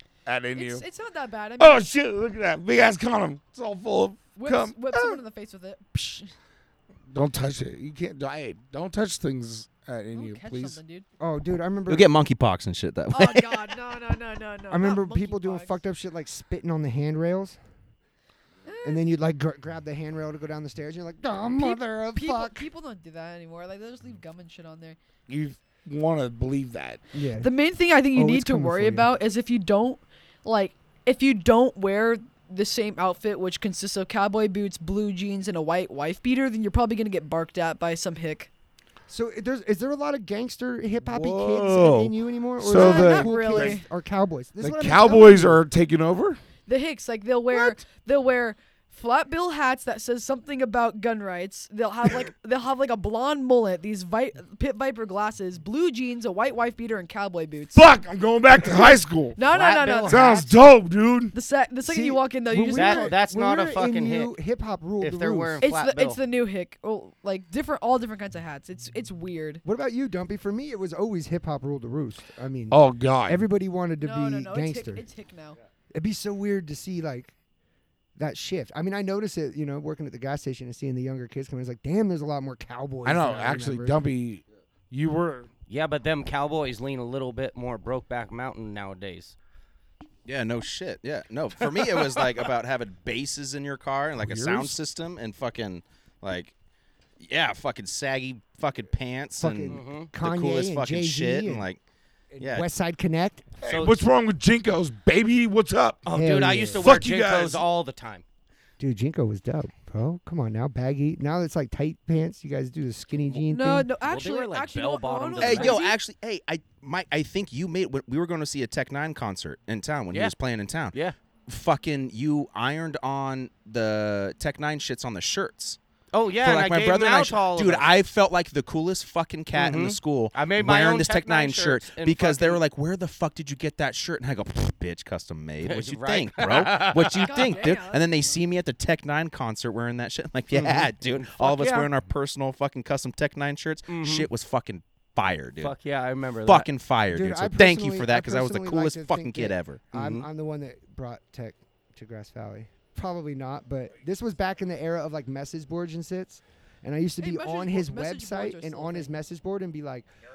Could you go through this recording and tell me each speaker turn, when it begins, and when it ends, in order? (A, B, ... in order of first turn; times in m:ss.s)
0:00.3-0:00.8 A
0:00.6-0:01.9 B
0:01.6-0:05.2 A
0:04.4-0:06.3 B
0:07.1-0:10.8 A
0:10.1-0:11.1 B
0:11.2-0:12.1 C
0:11.9-0:13.8 D
0:13.1-0:15.8 B
0:14.7-0:17.6 C
0:18.6-0:19.1 B
0:18.8-0:22.7 C
0:21.6-0:25.0 B
0:25.3-0:27.0 A
0:27.1-0:27.5 C
0:27.4-0:38.5 B
0:28.1-0:29.1 C
0:39.1-0:45.6 C
0:41.0-0:43.8 A
0:42.7-0:43.9 B
0:44.6-0:46.4 A
0:46.7-0:57.9 B
0:57.7-0:59.4 A
0:59.4-1:00.4 B
0:59.5-1:00.4 E
1:00.1-1:00.4 C
1:00.1-1:01.4 A
1:01.3-1:03.1 B
1:01.9-1:05.6 C
1:02.7-1:04.3 E
1:05.0-1:06.2 E
1:05.6-1:09.6 B
1:09.6-1:15.1 C
1:12.7-1:13.4 A
1:14.0-1:15.6 B
1:15.9-1:17.4 C
1:18.2-1:24.0 C
1:23.0-1:25.5 A
1:25.7-1:29.4 E
1:30.3-1:36.5 D
1:34.2-1:34.8 A
1:37.2-1:41.8 D
1:39.4-1:41.7 C
1:39.7-1:40.1 E
1:42.4-1:43.4 C
1:42.4-1:42.7 D
1:43.6-1:46.1 A
1:43.6-1:44.0 E
1:46.0-1:48.2 E
1:46.1-1:46.8 C
1:46.7-1:47.6 A
1:48.8-1:53.9 C
1:53.5-1:56.0 B
1:54.0-1:55.8 E
1:55.4-2:01.0 D
2:01.5-2:05.8 D
2:06.1-2:07.9 E
2:06.4-2:25.8 D
2:09.5-2:12.6 E
2:15.6-2:17.4 E
2:17.2-2:18.4 B
2:20.5-2:21.9 E
2:23.9-2:24.3 E
2:25.6-2:26.7 E
2:26.4-2:29.8 D
2:27.1-2:40.1 C
2:29.9-2:30.3 E
2:37.2-2:39.1 B